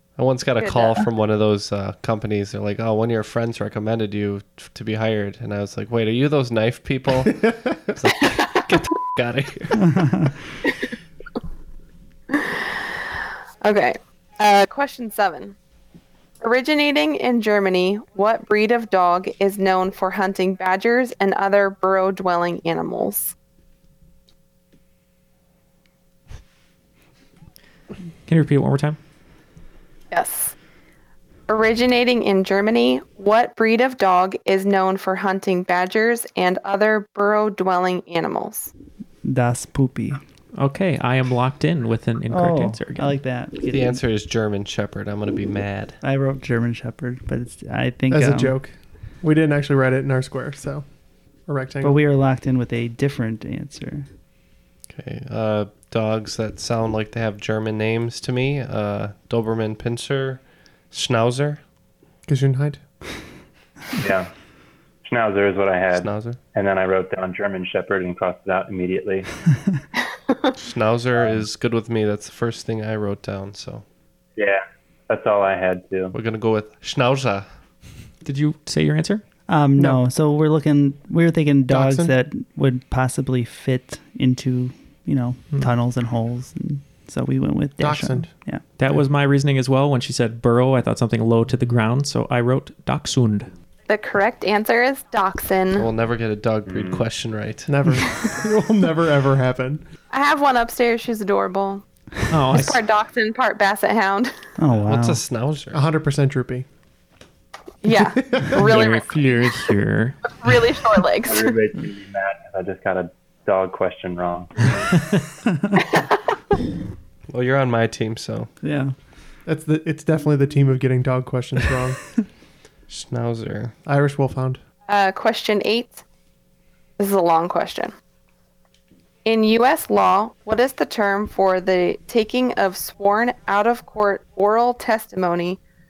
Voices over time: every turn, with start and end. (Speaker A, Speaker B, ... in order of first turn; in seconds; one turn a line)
Speaker A: 0.2-9.9
Speaker B: 0.6-1.1
Speaker B: 8.2-8.6
Speaker C: 9.8-10.3
Speaker B: 12.3-12.8
Speaker B: 13.6-15.6
Speaker B: 16.4-23.3
Speaker D: 28.2-29.0
Speaker B: 30.1-30.5
Speaker B: 31.5-38.7
Speaker C: 39.2-40.2
Speaker D: 40.6-43.1
Speaker C: 42.3-44.0
Speaker A: 43.7-46.0
Speaker C: 46.0-48.5
Speaker E: 48.1-50.9
Speaker E: 51.5-52.0
Speaker C: 51.8-54.1
Speaker A: 54.9-61.6
Speaker E: 62.3-62.8
Speaker F: 64.0-64.3
Speaker F: 65.0-69.3
Speaker A: 65.9-66.4
Speaker A: 70.6-73.8
Speaker F: 74.4-76.1
Speaker A: 76.1-77.5
Speaker D: 78.2-79.2
Speaker C: 79.5-88.6
Speaker E: 79.8-80.0
Speaker E: 81.7-82.1
Speaker E: 87.8-88.3
Speaker D: 88.8-93.5
Speaker B: 93.9-95.9
Speaker A: 95.7-97.7
Speaker F: 96.7-97.1
Speaker E: 97.7-99.8
Speaker B: 100.1-101.8
Speaker D: 102.3-102.8
Speaker B: 102.5-104.3
Speaker C: 104.6-105.2
Speaker A: 104.8-105.8
Speaker E: 105.7-106.7
Speaker B: 107.8-109.5
Speaker E: 108.3-108.6
Speaker D: 108.5-110.5
Speaker B: 110.4-111.5
Speaker F: 111.2-114.8
Speaker A: 117.3-118.5
Speaker C: 118.6-118.9
Speaker E: 119.5-122.0
Speaker A: 122.9-123.7
Speaker E: 123.8-124.6
Speaker B: 124.9-126.0
Speaker B: 127.0-127.9
Speaker B: 129.2-135.6